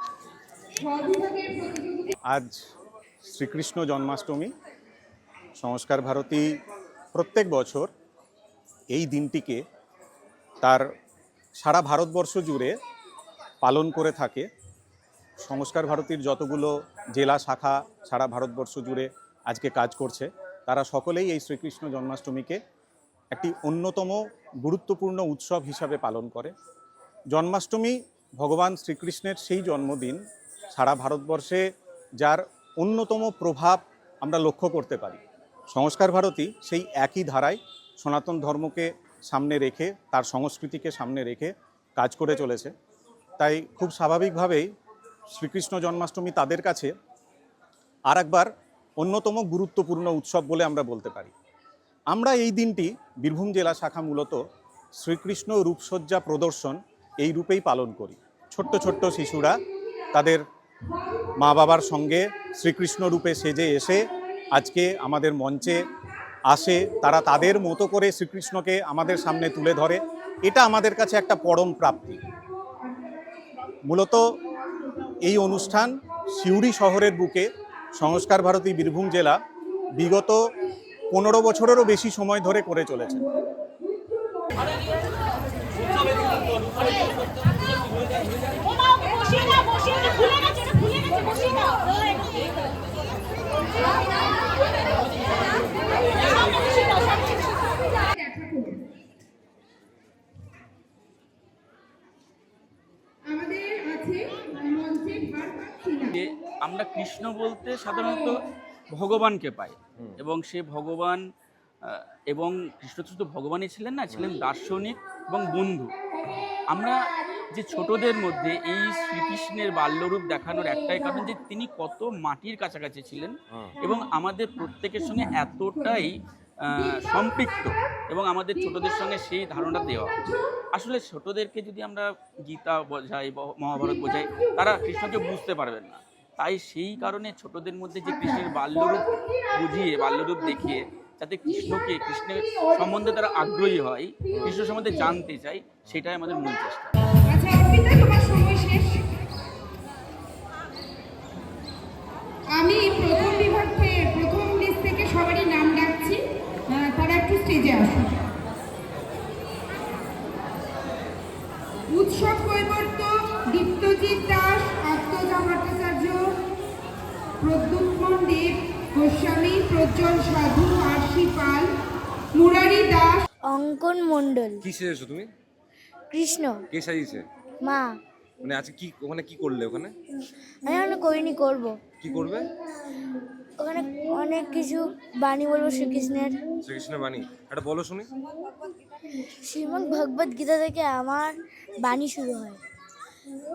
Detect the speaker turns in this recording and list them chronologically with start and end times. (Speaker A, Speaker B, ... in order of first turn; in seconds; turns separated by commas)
Speaker A: 0.8-2.1, Speaker B: 2.3-2.6, Speaker B: 3.2-4.5, Speaker B: 5.6-6.5, Speaker B: 7.1-7.9, Speaker B: 8.9-9.6, Speaker B: 11.6-12.7, Speaker B: 13.6-14.5, Speaker B: 15.4-22.6, Speaker B: 23.3-26.5, Speaker B: 27.3-30.2, Speaker B: 30.7-31.6, Speaker B: 32.2-42.7, Speaker B: 43.4-44.7, Speaker B: 45.3-46.9, Speaker B: 48.1-51.3, Speaker B: 52.1-54.4, Speaker B: 55.0-59.6, Speaker B: 60.1-60.4, Speaker B: 61.4-65.9, Speaker B: 66.5-72.2, Speaker B: 73.9-74.2, Speaker B: 75.2-79.4, Speaker B: 80.0-80.4, Speaker B: 81.1-83.3, Speaker A: 95.7-96.8, Speaker A: 97.7-98.9, Speaker A: 103.3-106.1, Speaker C: 106.1-111.2, Speaker C: 111.8-116.0, Speaker C: 116.7-130.2, Speaker C: 130.7-147.0, Speaker A: 138.1-138.4, Speaker D: 144.3-144.6, Speaker A: 144.7-145.1, Speaker A: 147.3-149.1, Speaker A: 152.5-158.3, Speaker A: 161.9-166.4, Speaker A: 167.4-171.7, Speaker A: 172.3-173.2, Speaker E: 173.5-174.6, Speaker D: 174.6-175.3, Speaker E: 176.1-176.6, Speaker D: 176.7-177.3, Speaker E: 177.6-177.9, Speaker D: 178.4-179.9, Speaker E: 180.7-181.8, Speaker D: 182.0-182.5, Speaker E: 183.6-186.4, Speaker D: 186.6-188.1, Speaker E: 189.4-192.6